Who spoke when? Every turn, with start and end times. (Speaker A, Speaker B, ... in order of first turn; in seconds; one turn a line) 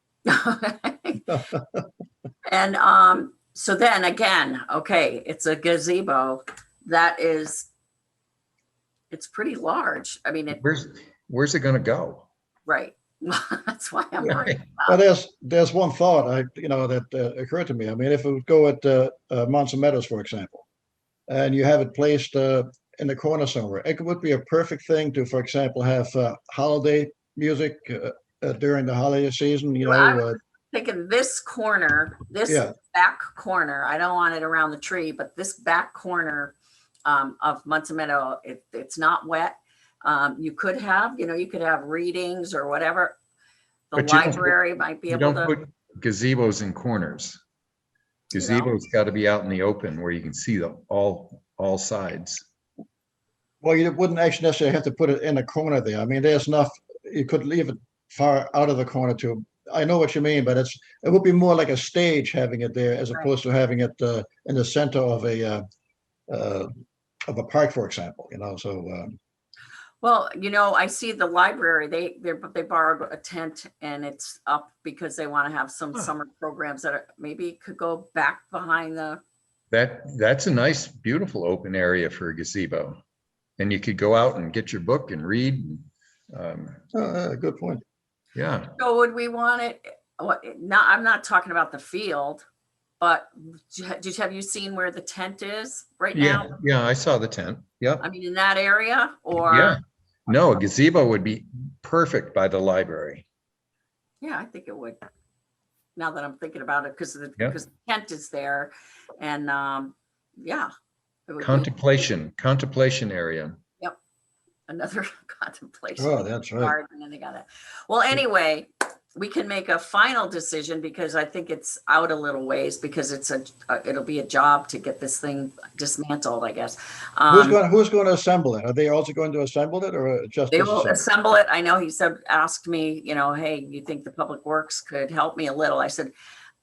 Speaker A: 0.2-1.3
Speaker B: 1.3-1.8
Speaker A: 2.5-7.7
Speaker A: 9.1-10.6
Speaker C: 10.5-12.3
Speaker A: 12.7-14.9
Speaker C: 14.2-14.6
Speaker B: 14.8-20.6
Speaker B: 21.3-30.4
Speaker A: 29.8-36.5
Speaker B: 32.5-32.7
Speaker A: 37.0-43.2
Speaker A: 43.9-45.5
Speaker C: 44.0-44.5
Speaker C: 45.1-47.4
Speaker C: 48.3-52.4
Speaker A: 48.3-48.7
Speaker B: 53.6-65.6
Speaker B: 66.3-66.7
Speaker B: 67.3-69.2
Speaker A: 70.0-79.2
Speaker C: 79.7-83.0
Speaker C: 83.6-86.8
Speaker B: 86.9-87.8
Speaker C: 88.3-88.7
Speaker A: 88.8-92.4
Speaker A: 93.0-96.6
Speaker C: 96.1-98.0
Speaker A: 98.0-99.8
Speaker C: 99.4-103.2
Speaker A: 104.2-105.0
Speaker A: 106.0-110.7
Speaker A: 111.3-111.7
Speaker C: 111.4-113.6
Speaker A: 114.7-127.6
Speaker B: 116.0-116.7
Speaker B: 127.3-131.0
Speaker A: 130.5-136.1